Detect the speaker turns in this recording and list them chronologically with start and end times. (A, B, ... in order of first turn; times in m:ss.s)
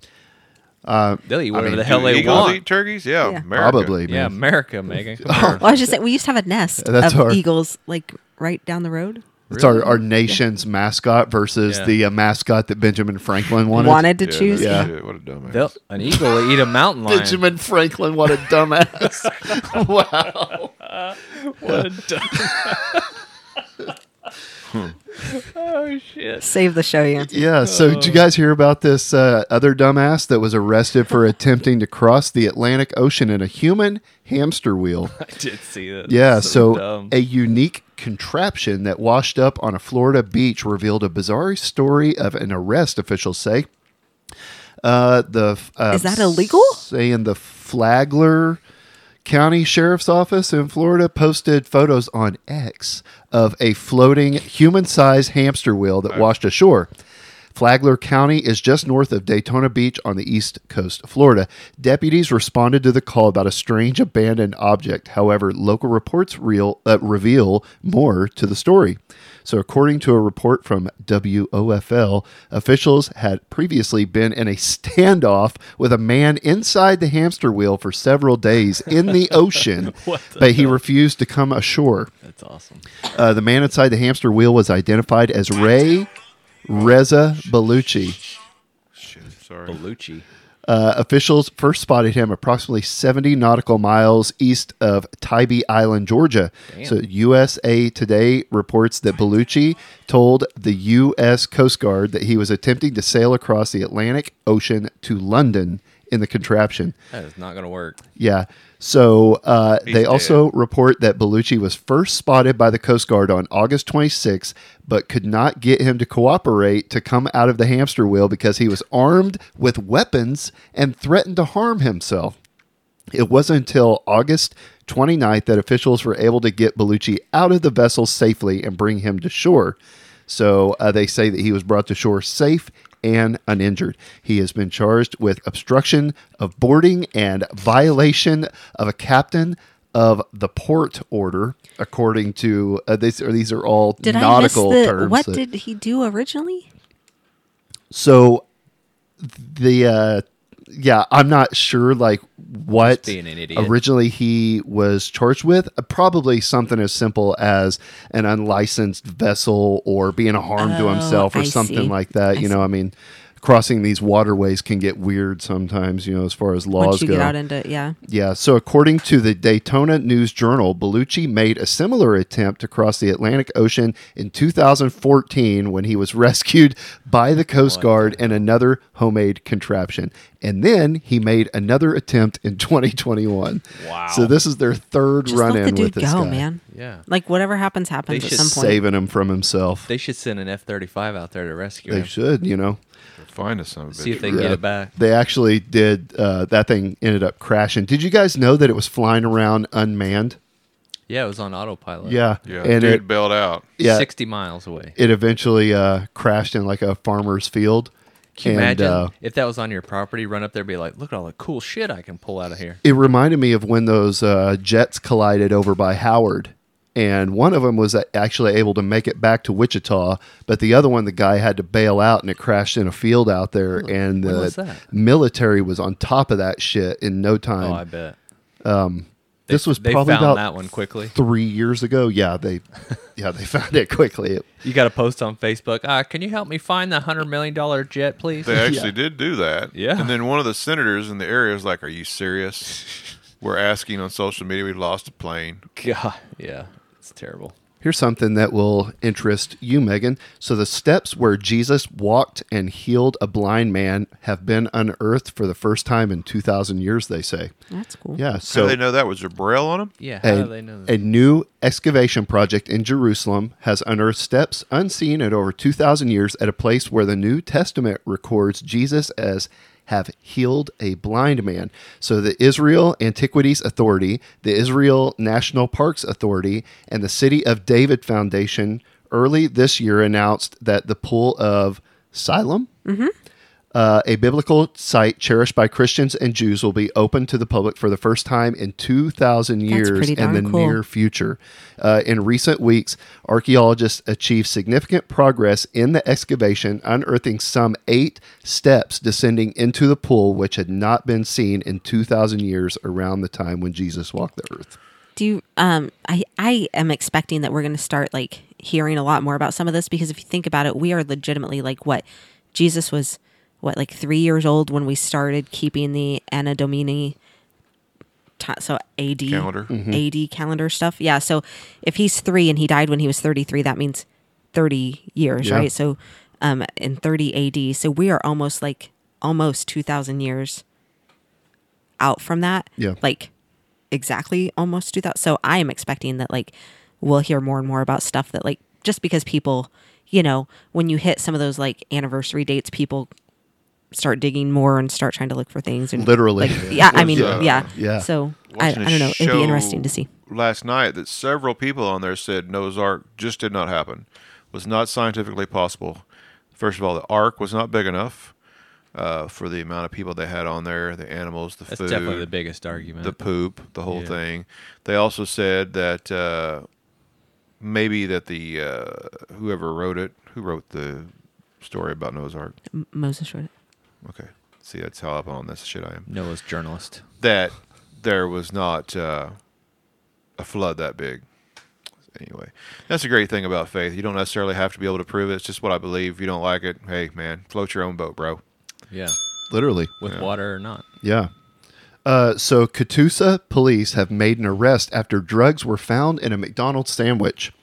0:00.8-0:02.5 A
0:01.2-0:02.6 B
0:01.8-0:04.0 C
0:03.5-0:04.4 A
0:04.0-0:05.8 B
0:05.2-0:05.6 A
0:05.5-0:10.4 D
0:06.8-0:07.4 A
0:09.5-0:09.8 B
0:09.5-0:14.9 A
0:11.7-0:11.9 B
0:13.7-0:14.9 D
0:14.2-0:15.7 C
0:15.5-0:17.4 B
0:17.0-0:20.7 A
0:19.2-0:19.7 B
0:20.8-0:23.1 B
0:21.6-0:22.8 A
0:24.7-0:24.9 C
0:25.2-0:26.5 B
0:26.4-0:27.4 D
0:27.2-0:35.1 A
0:27.6-0:28.2 B
0:35.1-0:37.1 B
0:36.1-0:43.7 A
0:44.8-0:48.6 A
0:45.9-0:46.8 D
0:49.2-0:56.9 A
0:57.5-1:22.1 A
1:19.0-1:20.8 B
1:22.2-1:22.9 B
1:23.1-1:26.1 A
1:26.6-1:28.2 A
1:26.7-1:27.0 C
1:28.9-1:29.8 C
1:29.6-1:30.3 B
1:30.6-1:46.9 A
1:36.7-1:37.0 B
1:47.1-1:48.0 B
1:48.2-2:02.4 A
1:49.8-1:50.4 C
2:03.1-2:25.4 A
2:24.0-2:26.7 D
2:27.9-2:28.4 A
2:29.2-2:47.3 A
2:32.8-2:33.7 B
2:40.6-2:42.6 D
2:46.8-2:48.0 D
2:48.0-3:06.4 A
2:57.6-2:58.4 B
3:03.7-3:04.4 B
3:05.3-3:08.8 D
3:06.7-3:07.0 B
3:08.1-3:08.7 B
3:08.4-3:09.9 A
3:09.9-3:12.1 B
3:11.9-3:12.8 A
3:13.2-3:14.5 C
3:13.9-3:14.9 B
3:14.1-3:20.4 A
3:21.1-3:22.2 B
3:22.0-3:23.0 A
3:22.4-3:23.6 C
3:23.8-3:24.1 A
3:23.8-3:25.0 B
3:25.0-3:27.9 A
3:28.3-3:32.8 B
3:28.4-3:29.1 A
3:32.8-3:47.8 A
3:43.8-3:44.8 B
3:47.6-3:48.2 B
3:48.6-3:50.5 A
3:49.5-3:51.1 B
3:51.1-3:54.4 A
3:54.6-3:58.5 B
3:58.4-4:02.8 C
3:58.4-3:58.9 A
3:59.7-4:00.1 B
4:03.4-4:05.7 C
4:05.8-4:07.6 B
4:07.8-4:17.5 A
4:17.7-4:18.2 D
4:18.1-4:18.8 A
4:18.4-4:19.9 C
4:20.0-4:21.0 B
4:20.2-4:42.7 A
4:42.8-4:43.1 D
4:43.7-5:04.8 A
4:49.7-4:50.8 D
5:05.2-5:17.2 D
5:18.4-5:30.6 D
5:19.3-5:19.7 C
5:19.7-5:20.0 A
5:25.4-5:25.7 A
5:32.0-5:33.3 D
5:33.9-5:43.1 D
5:43.9-5:50.1 D
5:45.9-5:48.1 A
5:46.6-5:46.9 B
5:46.8-5:47.7 C
5:48.5-5:58.4 C
5:58.9-6:06.7 C
6:01.7-6:03.2 B
6:03.9-6:04.2 B
6:07.6-6:12.6 C
6:12.7-6:13.5 D
6:14.0-6:16.1 C
6:16.1-6:17.0 B
6:17.2-6:19.4 C
6:20.4-6:21.2 C
6:22.1-6:28.4 C
6:28.9-6:29.2 B
6:29.5-6:29.9 A
6:30.0-6:30.8 B
6:31.0-6:31.3 A
6:32.0-6:37.5 A